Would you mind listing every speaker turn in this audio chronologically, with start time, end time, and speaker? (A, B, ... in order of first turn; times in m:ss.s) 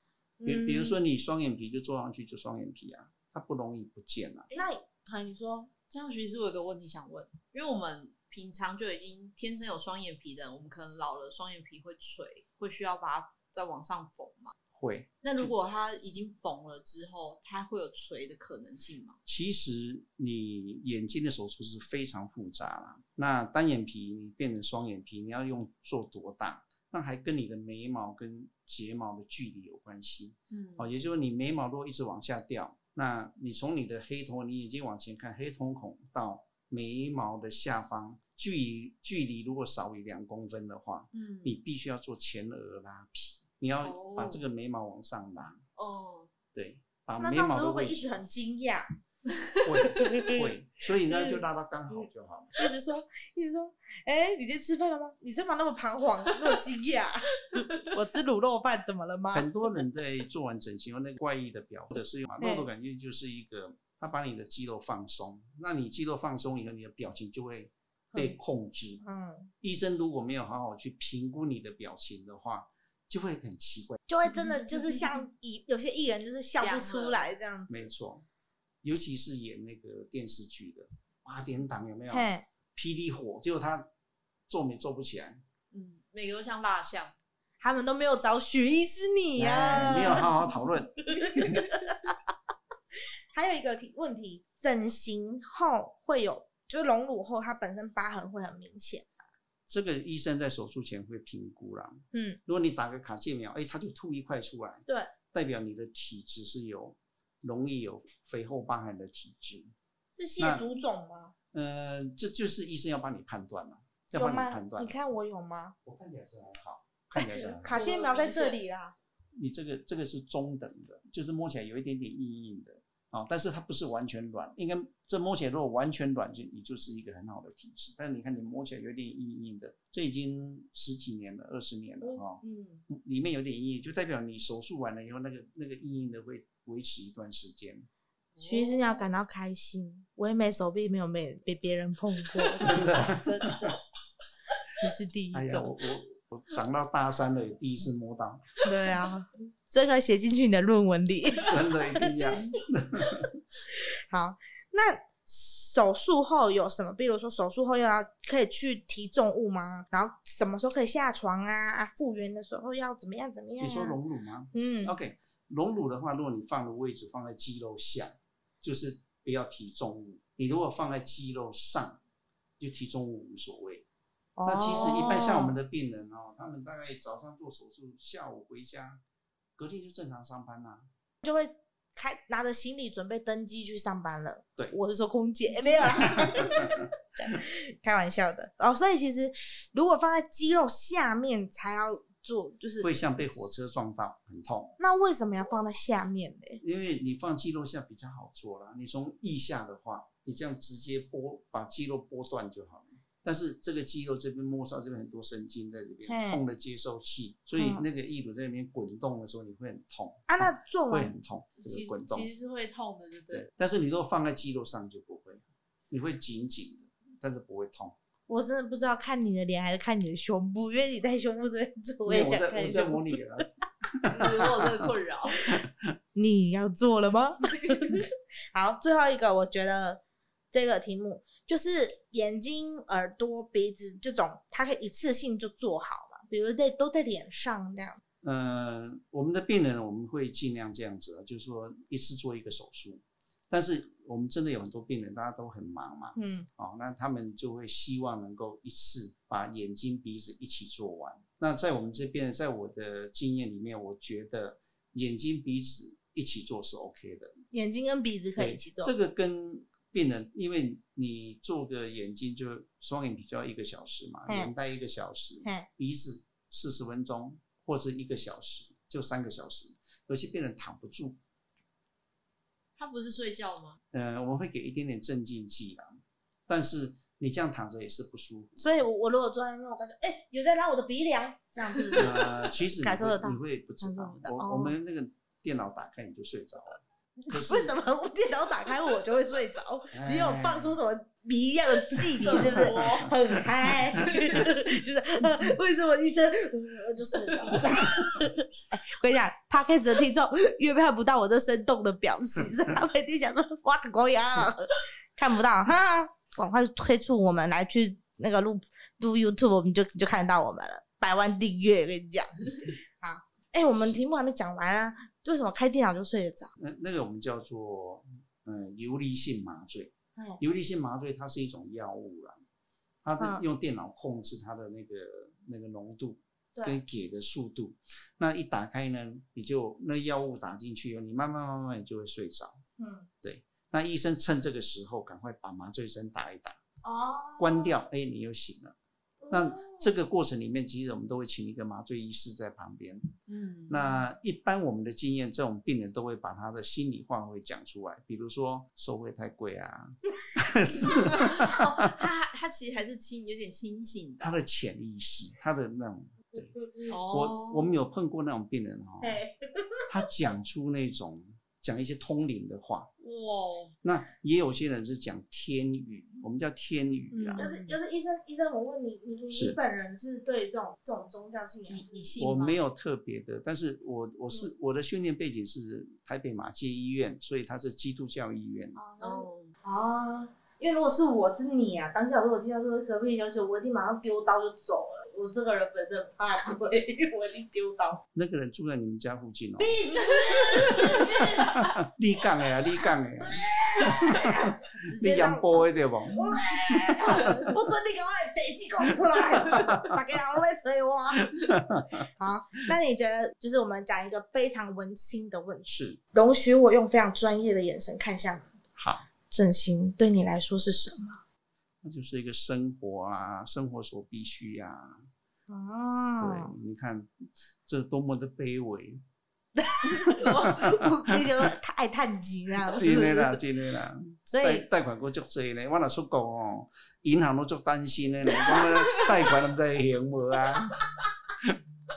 0:00.4-0:01.0 A
0:00.4-0:04.5 B
0:04.5-0:05.7 A
0:05.9-0:14.6 C
0:14.7-0:15.5 B
0:15.2-0:19.2 C
0:19.2-0:45.6 B
0:30.5-0:30.9 C
0:41.1-0:41.6 C
0:43.8-0:44.4 C
0:45.8-0:46.3 C
0:46.5-0:48.2 B
0:47.2-0:48.9 A
0:49.6-0:52.5 B
0:50.0-0:50.4 A
0:51.1-0:51.4 A
0:52.6-0:59.5 A
0:59.3-1:09.0 B
1:02.4-1:02.7 A
1:09.0-1:09.5 A
1:09.6-1:14.0 B
1:14.1-1:17.9 A
1:14.4-1:15.1 C
1:16.6-1:17.3 C
1:17.7-1:18.2 B
1:18.8-1:23.9 B
1:22.1-1:22.4 A
1:24.5-1:25.4 B
1:25.7-1:27.1 C
1:27.6-1:30.3 A
1:29.4-1:30.9 B
1:31.1-1:32.1 A
1:33.3-1:39.1 A
1:39.7-1:49.7 B
1:42.1-1:42.4 A
1:50.1-1:51.3 A
1:50.4-1:50.6 B
1:51.5-1:54.9 B
1:54.1-1:55.7 A
1:55.8-1:57.8 B
1:57.1-1:58.9 A
1:57.7-1:58.6 C
1:59.4-2:17.9 B
2:12.0-2:12.8 C
2:18.4-2:19.0 C
2:18.4-2:23.7 A
2:22.6-2:23.8 B
2:24.8-2:25.7 A
2:25.3-2:28.4 B
2:28.6-2:32.4 A
2:31.4-2:33.3 B
2:34.1-2:44.0 A
2:43.6-2:52.0 B
2:44.5-2:44.9 A
2:52.6-2:53.8 B
2:54.4-2:55.6 A
2:54.4-2:59.0 B
2:59.6-3:00.9 B
3:01.2-3:12.9 A
3:06.0-3:06.7 B
3:12.8-3:14.8 B
3:14.8-3:16.6 A
3:16.6-3:32.3 B
3:26.1-3:26.4 A
3:27.6-3:27.8 A
3:30.3-3:31.1 A
3:31.6-3:33.5 C
3:33.3-3:37.9 B
3:38.3-3:43.2 A
3:42.0-3:44.9 B
3:44.1-3:45.4 C
3:45.5-3:45.9 B
3:46.1-3:58.0 A
3:47.6-3:47.9 C
3:58.2-4:17.4 B
4:06.2-4:06.5 A
4:17.5-4:18.9 A
4:18.4-4:31.2 B
4:32.8-4:33.8 C
4:33.9-4:38.8 B
4:38.6-4:44.7 A
4:42.0-4:47.8 B
4:47.3-5:16.5 A
4:49.9-4:50.8 B
4:52.2-4:53.1 B
4:52.2-4:53.1 C
5:16.6-5:22.4 B
5:20.2-5:20.4 A
5:23.0-5:32.6 B
5:32.8-5:33.1 A
5:33.2-5:36.6 B
5:36.8-5:37.8 A
5:37.4-5:38.8 B
5:39.2-5:39.9 A
5:39.3-5:43.2 B
5:43.3-5:44.0 C
5:43.7-5:51.9 B
5:50.9-5:54.4 C
5:54.2-5:59.2 B
5:56.6-5:56.9 A
5:56.9-5:57.7 C
5:59.0-5:59.8 A
5:59.9-6:02.9 B
6:03.0-6:03.7 C
6:03.8-6:07.5 B
6:07.1-6:07.8 C
6:07.4-6:12.1 A
6:11.7-6:12.6 C
6:12.2-6:18.8 B
6:18.8-6:28.0 A
6:19.0-6:19.5 C
6:28.1-6:29.8 B
6:29.6-6:31.5 A
6:30.3-6:31.0 C
6:31.0-6:37.2 B
6:33.2-6:41.3 A
6:39.5-6:39.9 B
6:41.2-6:42.1 B
6:42.2-6:48.5 A
6:45.7-6:46.0 B
6:48.8-6:49.0 B
6:49.3-6:51.2 A
6:51.8-6:55.0 B
6:55.5-6:56.5 A
6:56.2-6:59.0 B
6:59.6-7:03.4 A
7:00.1-7:01.2 B
7:02.7-7:10.7 B
7:04.3-7:04.6 A